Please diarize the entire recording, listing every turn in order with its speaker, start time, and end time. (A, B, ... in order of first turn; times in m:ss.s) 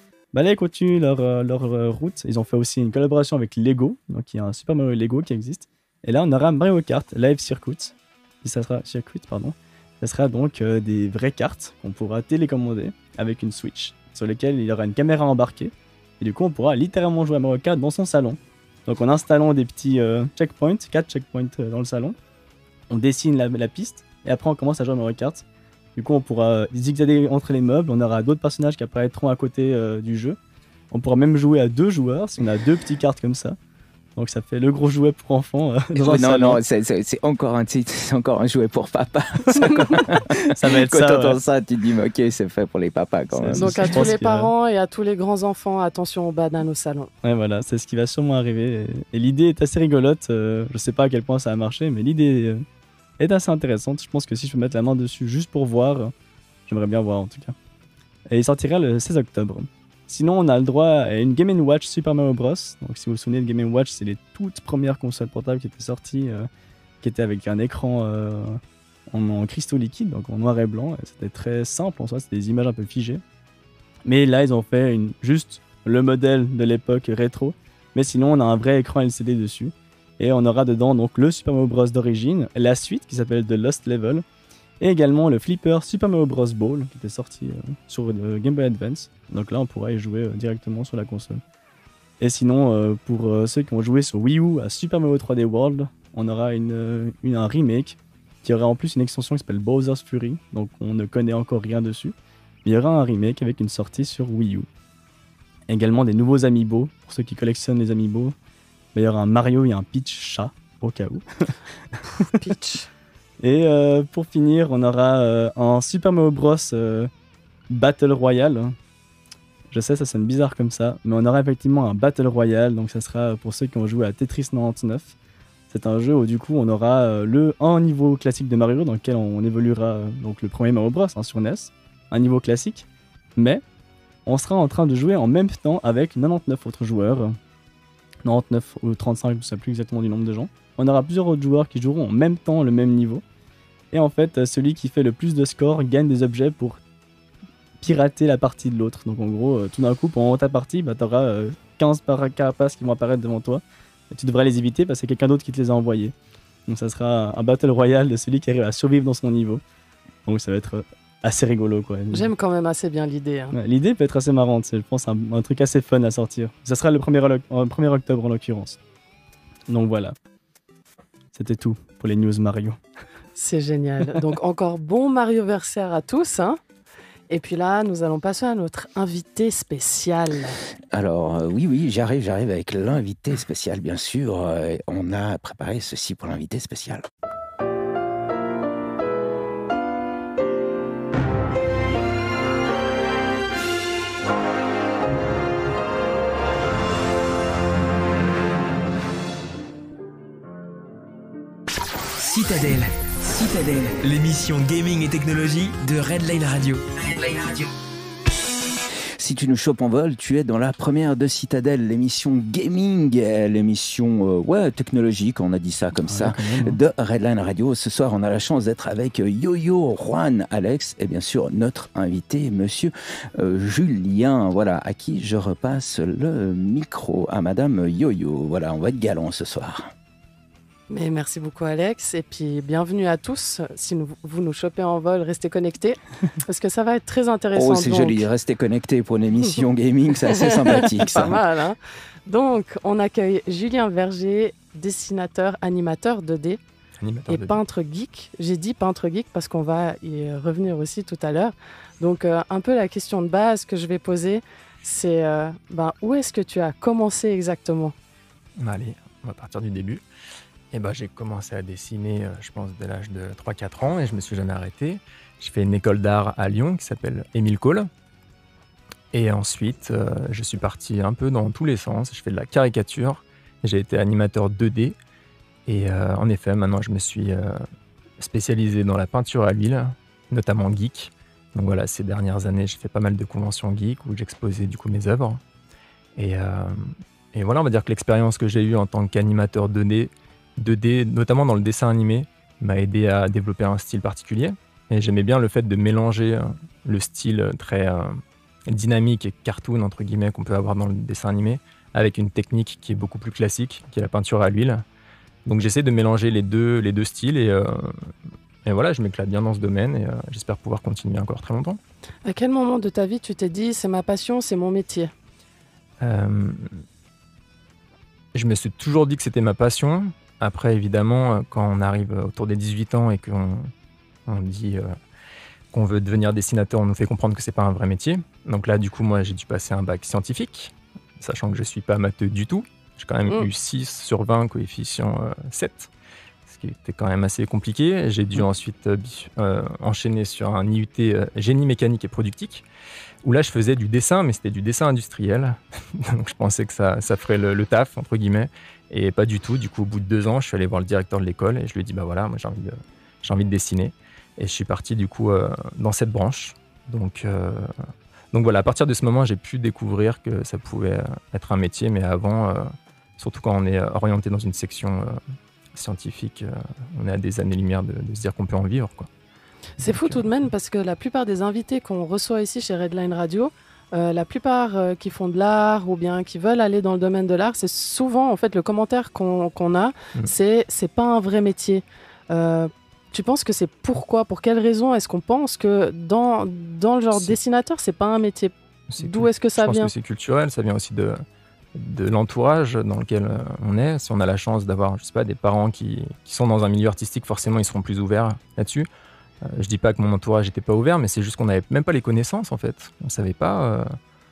0:00.3-0:22.2 A
0:22.9-0:25.4 A
0:26.0-0:30.4 A
0:30.9-0:33.6 A
0:34.2-0:36.6 A
0:35.9-0:44.1 B
0:40.1-0:41.4 A
0:43.3-0:44.5 A
0:43.6-0:47.1 C
0:47.2-0:52.6 A
0:53.2-0:56.1 A
0:56.7-0:57.5 A
0:58.3-1:06.5 A
1:07.0-1:13.2 A
1:14.0-1:24.2 A
1:24.8-1:31.4 A
1:32.2-1:42.1 A
1:42.6-1:44.7 A
1:45.7-1:48.3 A
1:48.9-1:52.0 A
1:52.2-1:52.9 C
1:53.4-1:57.1 A
1:57.7-1:58.8 A
1:59.7-2:05.1 A
2:05.7-2:12.8 A
2:13.4-2:13.6 A
2:14.2-2:17.4 A
2:18.2-2:23.2 A
2:23.9-2:26.8 A
2:27.8-2:36.1 A
2:36.7-2:39.6 A
2:40.2-2:42.3 A
2:42.1-2:43.6 C
2:43.5-2:48.8 A
2:49.7-2:50.1 A
2:51.3-2:52.8 A
2:53.4-2:56.6 C
2:57.3-3:00.6 C
3:00.9-3:07.0 B
3:22.2-3:27.7 D
3:29.2-3:49.9 B
3:36.0-3:36.8 A
3:50.9-3:58.2 C
3:57.5-4:01.4 B
4:00.3-4:06.6 C
4:07.0-4:07.6 E
4:07.3-4:17.9 C
4:18.6-4:20.0 E
4:20.7-4:27.9 E
4:29.1-4:35.0 E
4:35.6-4:37.6 E
4:38.2-4:45.4 E
4:46.2-5:04.8 E
5:05.4-5:08.1 E
5:08.6-5:11.8 E
5:12.2-5:15.1 C
5:16.0-5:16.8 E
5:18.3-5:23.7 E
5:24.2-5:25.0 E
5:25.7-5:35.9 E
5:36.4-5:42.6 E
5:43.2-5:57.7 E
5:58.3-6:05.2 E
6:05.7-6:09.1 E
6:09.8-6:29.9 C
6:09.8-6:10.4 E
6:28.9-6:31.2 E
6:31.7-6:38.9 E
6:39.4-6:43.9 E